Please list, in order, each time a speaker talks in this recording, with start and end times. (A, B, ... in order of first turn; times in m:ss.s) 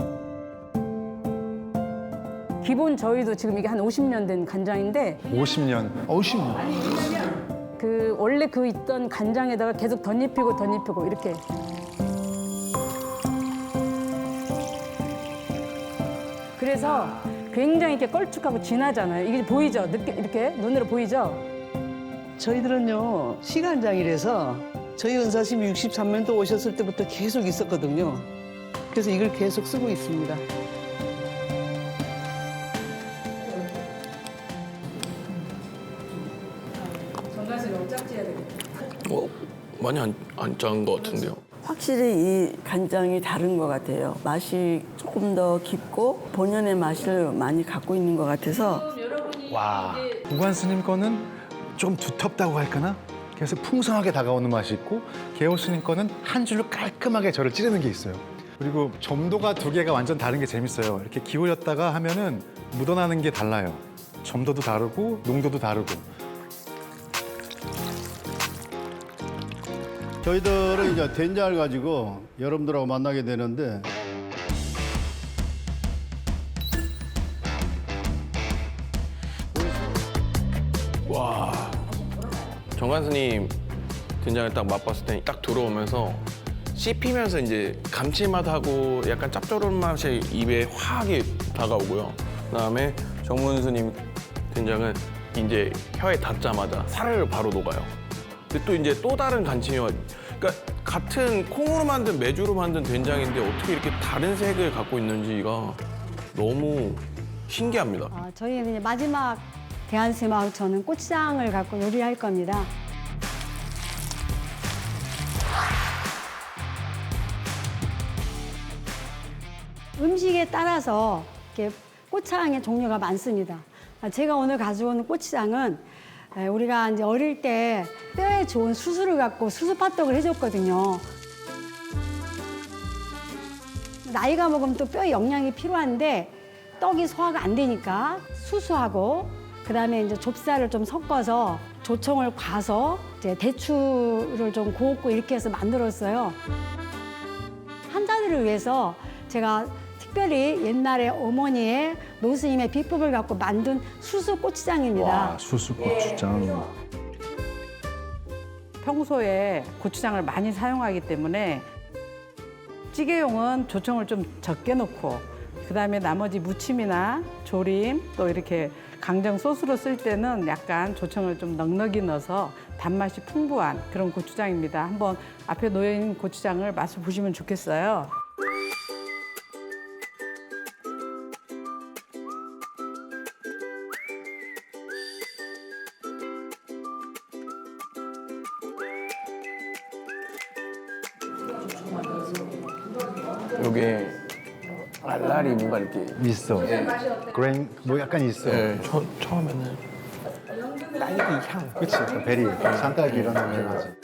0:02.6-0:05.2 A
0:05.3-0:07.0 B
0:07.8-0:11.4 A
0:16.6-0:21.4 A
0:22.4-0:28.3 C
0:28.9-0:30.4 C
0:39.0-0:41.4 D
0:41.6-0:48.8 E
0:49.5-1:06.1 B
1:10.2-1:13.9 F
1:21.1-1:22.0 D
1:22.7-1:23.6 D
1:24.2-1:37.9 D
1:38.5-1:45.8 D
1:46.3-1:48.1 D
1:48.1-1:52.7 G
2:00.0-2:05.8 G
2:06.4-2:11.1 G
2:14.0-2:26.4 G
2:27.9-2:35.4 G
2:35.0-2:36.7 B
2:38.8-2:41.7 H
2:42.9-2:58.1 H
3:13.5-3:14.2 D
3:15.0-3:17.0 D
3:16.2-3:18.7 B
3:18.4-3:19.8 D
3:21.6-3:23.9 B
3:22.6-3:23.6 D